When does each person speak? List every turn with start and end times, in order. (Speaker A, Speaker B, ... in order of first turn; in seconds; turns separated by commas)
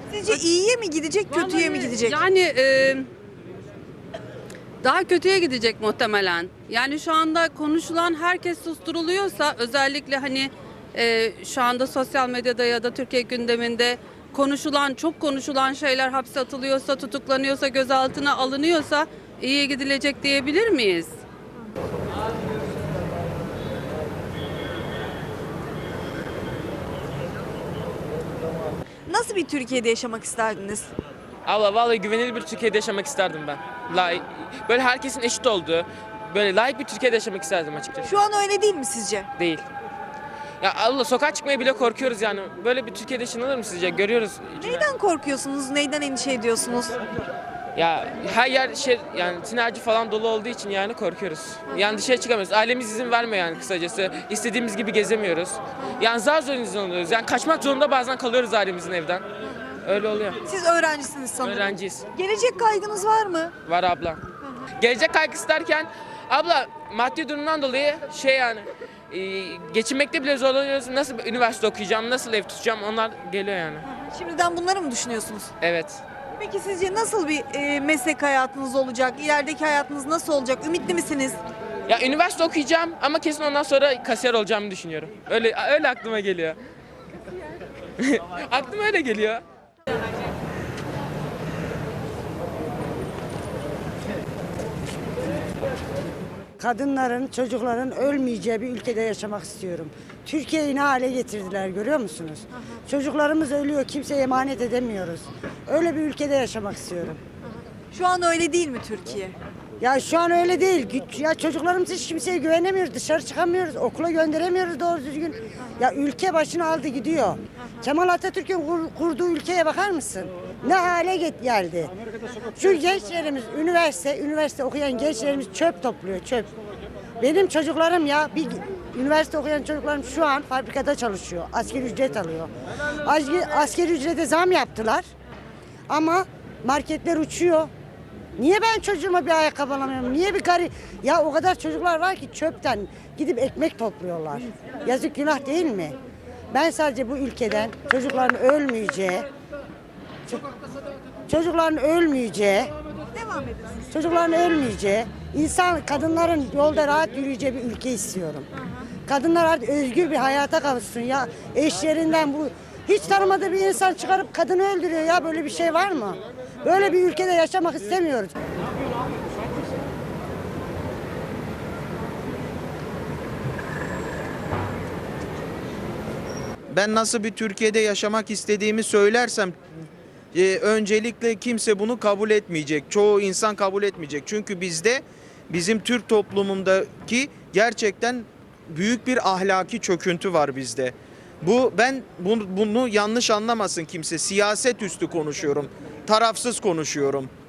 Speaker A: 0.1-2.2, Speaker B: 1.3-3.1, Speaker B: 4.8-21.1, Speaker A: 29.1-30.9, Speaker C: 31.4-38.1, Speaker A: 38.0-39.3, Speaker C: 39.4-39.6, Speaker C: 40.6-44.9, Speaker A: 44.6-47.0, Speaker C: 47.7-59.2, Speaker C: 59.8-60.4, Speaker A: 60.4-63.5, Speaker C: 61.4-62.0, Speaker C: 63.6-64.2, Speaker C: 64.8-73.8, Speaker A: 73.9-75.5, Speaker C: 75.6-76.0, Speaker A: 76.3-81.4, Speaker C: 81.9-86.6, Speaker C: 88.0-89.4, Speaker D: 96.6-107.2, Speaker A: 107.4-109.3, Speaker D: 109.8-121.9, Speaker A: 117.6-117.9, Speaker D: 122.5-126.5, Speaker D: 127.2-132.5, Speaker D: 133.0-135.1, Speaker D: 135.9-137.7, Speaker D: 138.4-146.0, Speaker D: 146.5-149.3, Speaker D: 151.3-152.7, Speaker A: 153.1-153.9, Speaker D: 153.9-158.5, Speaker A: 158.6-158.9, Speaker D: 159.1-168.3, Speaker E: 176.7-179.6, Speaker E: 180.3-197.3